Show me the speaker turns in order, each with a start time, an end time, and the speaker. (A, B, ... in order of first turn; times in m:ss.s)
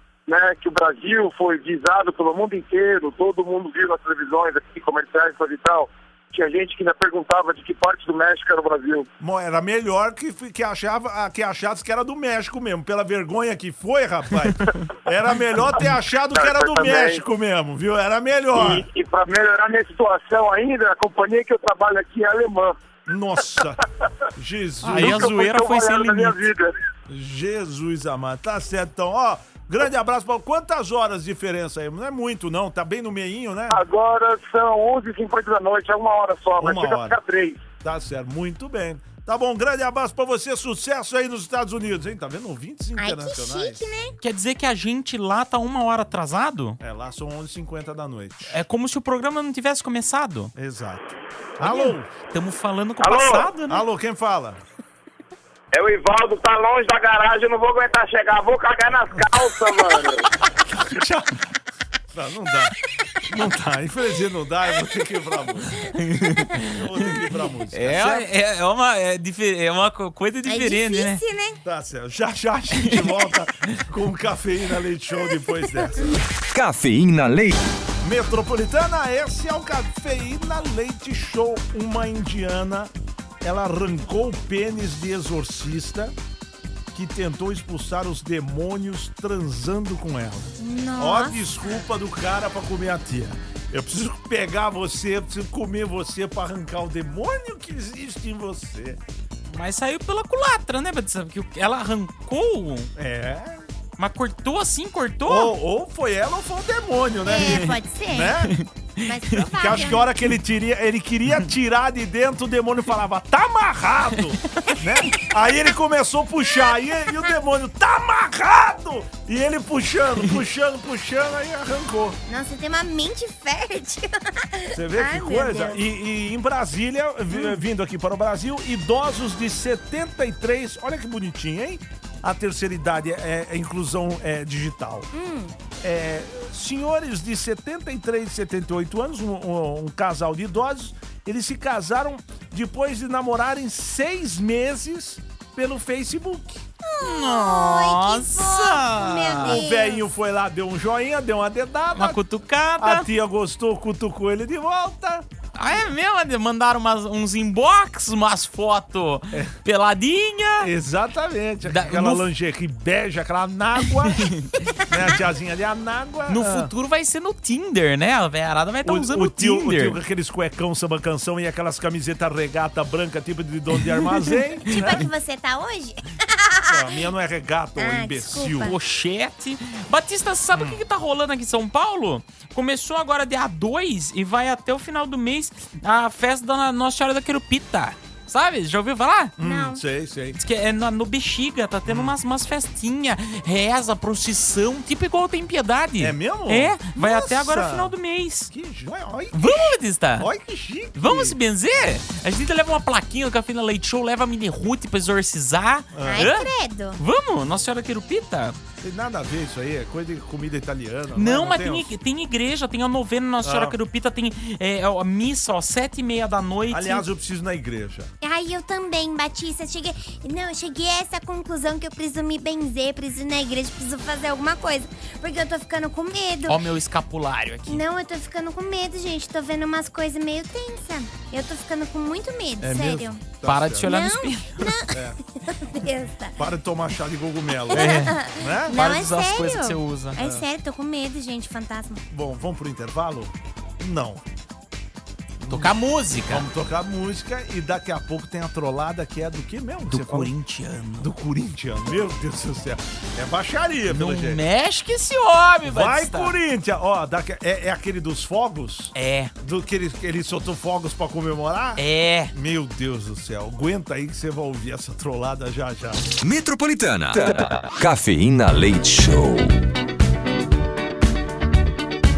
0:00.3-0:09.1 A
0:09.2-0:18.8 B
0:16.3-0:17.2 A
0:18.5-0:22.8 A
0:23.0-0:23.8 B
0:24.4-0:25.3 B
0:24.8-0:26.4 C
0:24.9-0:26.7 A
0:27.1-0:33.8 B
0:33.7-0:37.6 A
0:36.6-0:37.2 B
0:37.8-0:43.8 B
0:43.0-0:44.2 D
0:44.2-0:46.8 C
0:46.8-0:48.6 B
0:48.5-0:50.5 C
0:50.6-0:52.1 B
0:51.6-0:53.8 C
0:53.0-0:53.5 E
0:53.7-0:54.6 B
0:55.7-1:00.2 E
0:59.1-0:59.4 B
1:00.5-1:01.4 B
1:02.1-1:05.9 B
1:05.9-1:07.1 C
1:06.6-1:08.3 B
1:07.7-1:11.2 C
1:10.4-1:11.6 D
1:11.6-1:16.1 B
1:16.5-1:17.5 F
1:18.0-1:22.9 B
1:23.4-1:26.1 B
1:26.9-1:39.0 B
1:30.6-1:31.7 D
1:39.5-1:42.9 C
1:43.0-1:43.6 B
1:44.0-1:45.5 C
1:45.3-1:48.5 B
1:47.2-1:48.5 D
1:47.4-1:47.7 C
1:48.5-1:49.5 C
1:49.0-1:50.1 D
1:49.5-2:02.2 B
1:57.0-1:57.3 D
2:02.3-2:05.8 D
2:04.7-2:15.1 B
2:07.3-2:07.6 D
2:15.1-2:15.5 D
2:15.8-2:26.6 B
2:26.8-2:30.0 D
2:27.0-2:29.6 C
2:29.4-2:32.2 B
2:32.0-2:33.1 C
2:32.8-2:35.2 B
2:35.5-2:40.7 C
2:40.6-2:44.2 B
2:41.6-2:42.2 C
2:44.1-2:44.8 C
2:44.8-2:46.7 B
2:46.3-2:50.0 C
2:48.8-2:55.1 B
2:54.7-2:56.9 D
2:56.7-2:58.8 B
2:57.8-2:58.8 D
2:58.6-3:09.3 C
3:00.5-3:00.8 B
3:09.4-3:10.4 B
3:09.4-3:09.8 D
3:10.4-3:18.5 C
3:11.8-3:12.1 B
3:16.0-3:18.0 B
3:18.5-3:21.4 B
3:19.3-3:20.3 C
3:21.0-3:28.6 C
3:25.9-3:26.3 B
3:26.0-3:27.0 D
3:28.8-3:31.9 B
3:31.2-3:37.0 C
3:33.4-3:33.8 B
3:36.7-3:38.1 B
3:38.2-3:46.6 D
3:46.4-3:47.8 C
3:47.7-3:53.2 D
3:52.6-3:53.9 B
3:53.4-3:54.6 C
3:53.8-3:56.4 D
3:54.9-3:55.2 B
3:56.4-3:58.9 B
3:57.7-4:02.0 D
3:57.7-4:00.2 C
4:00.2-4:00.4 B
4:02.1-4:04.2 B
4:05.4-4:05.7 B
4:05.5-4:06.5 C
4:06.3-4:10.3 B
4:09.9-4:11.1 C
4:11.0-4:14.4 B
4:13.9-4:16.3 C
4:15.6-4:26.1 B
4:18.9-4:19.3 C
4:21.8-4:22.3 C
4:26.2-4:29.6 F